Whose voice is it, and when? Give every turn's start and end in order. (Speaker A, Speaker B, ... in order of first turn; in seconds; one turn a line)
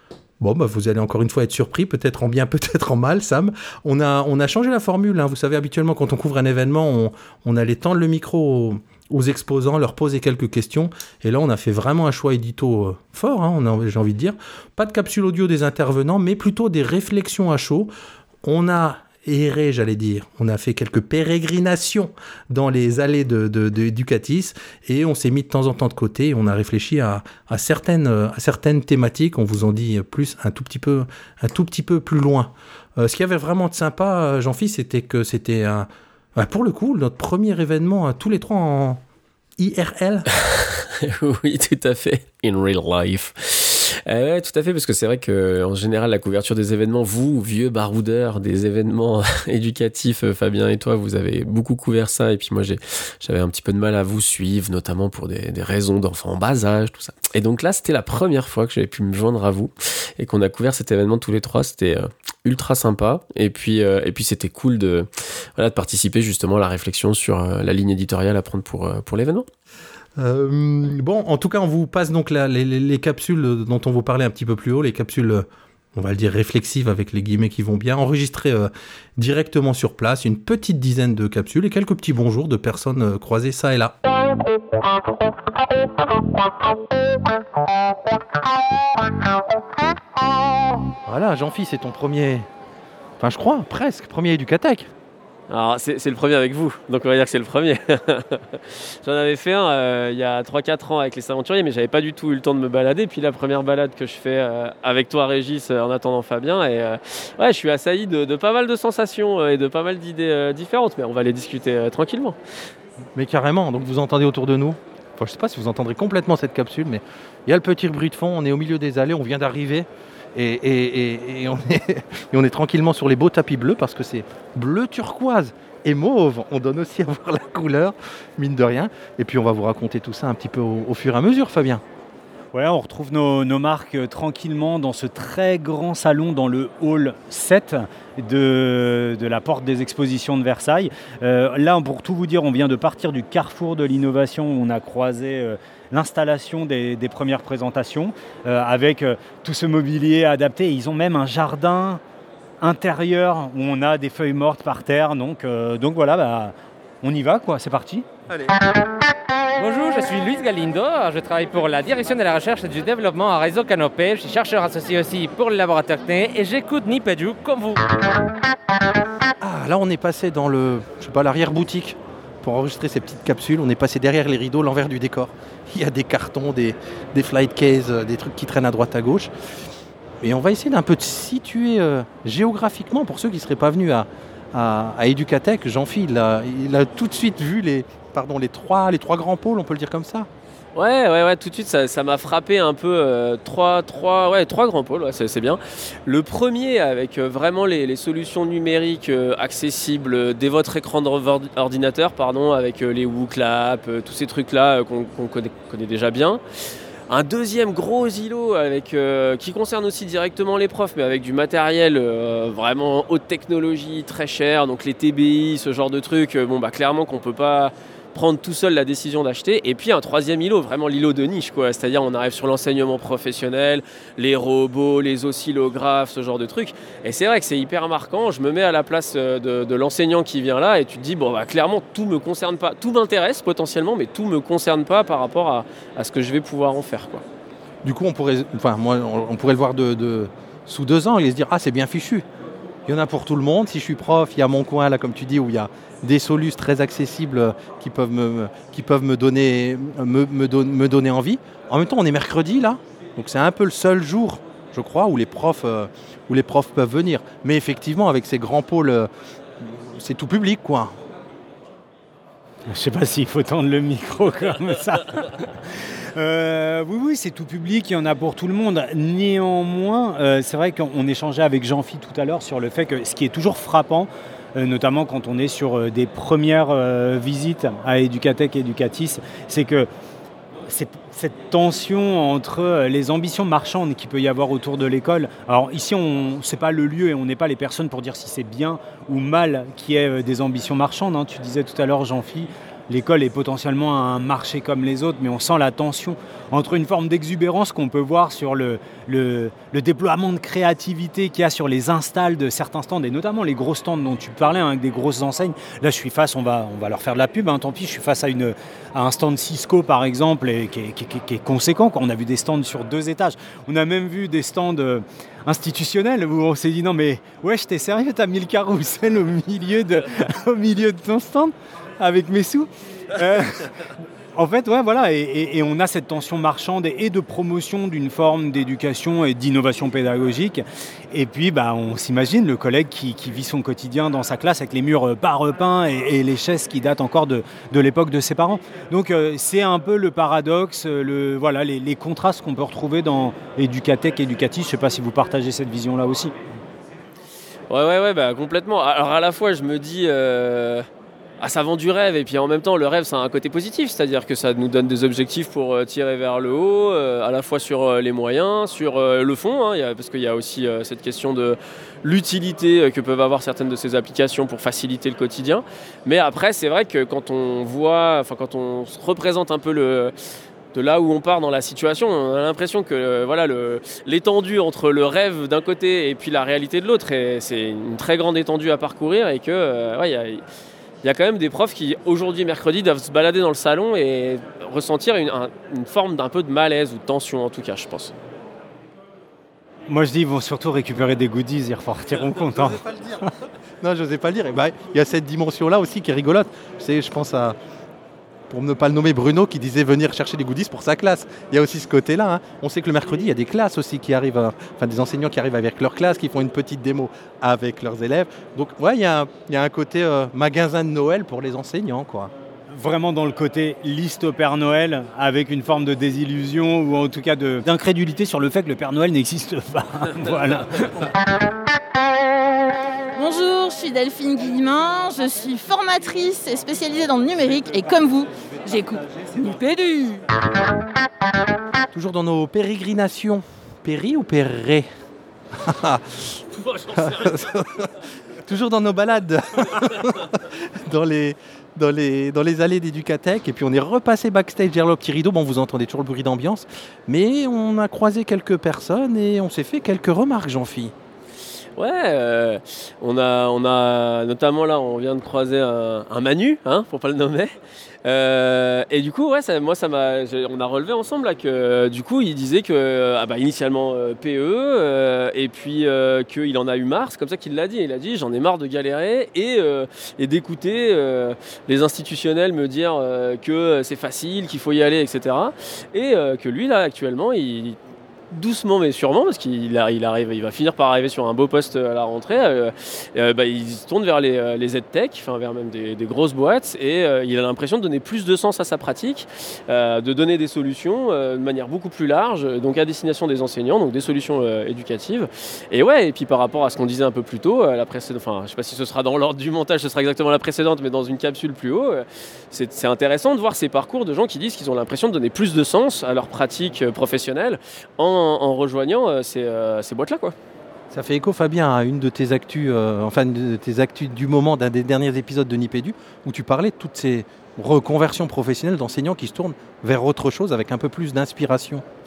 Speaker A: 0.4-17.9
Speaker A: 18.4-39.0
Speaker A: 39.6-40.3
Speaker B: 40.4-69.5
Speaker A: 70.2-84.0
Speaker A: 91.1-92.5
Speaker A: 93.2-94.9
Speaker B: 95.5-112.4
Speaker A: 113.2-131.8
Speaker C: 132.5-152.0
Speaker C: 152.6-158.1
Speaker D: 159.6-167.8
Speaker A: 169.4-179.3
Speaker A: 180.2-190.3
Speaker B: 190.7-206.4
Speaker B: 207.1-237.2
Speaker A: 237.8-242.2
Speaker A: 242.9-259.1
Speaker A: 259.6-260.9
Speaker C: 262.7-279.9
Speaker C: 280.7-323.7
Speaker C: 324.3-346.3
Speaker B: 347.7-350.9
Speaker B: 351.4-370.1
Speaker B: 370.7-380.4
Speaker B: 381.0-388.1
Speaker C: 389.9-393.3
Speaker A: 393.8-397.6
Speaker A: 398.5-412.3
Speaker C: 412.7-421.1
Speaker E: 423.1-430.2
Speaker A: 431.9-434.9
Speaker A: 435.6-437.9
Speaker A: 438.4-450.9
Speaker B: 451.8-477.8
Speaker B: 478.3-510.3
Speaker A: 510.9-521.8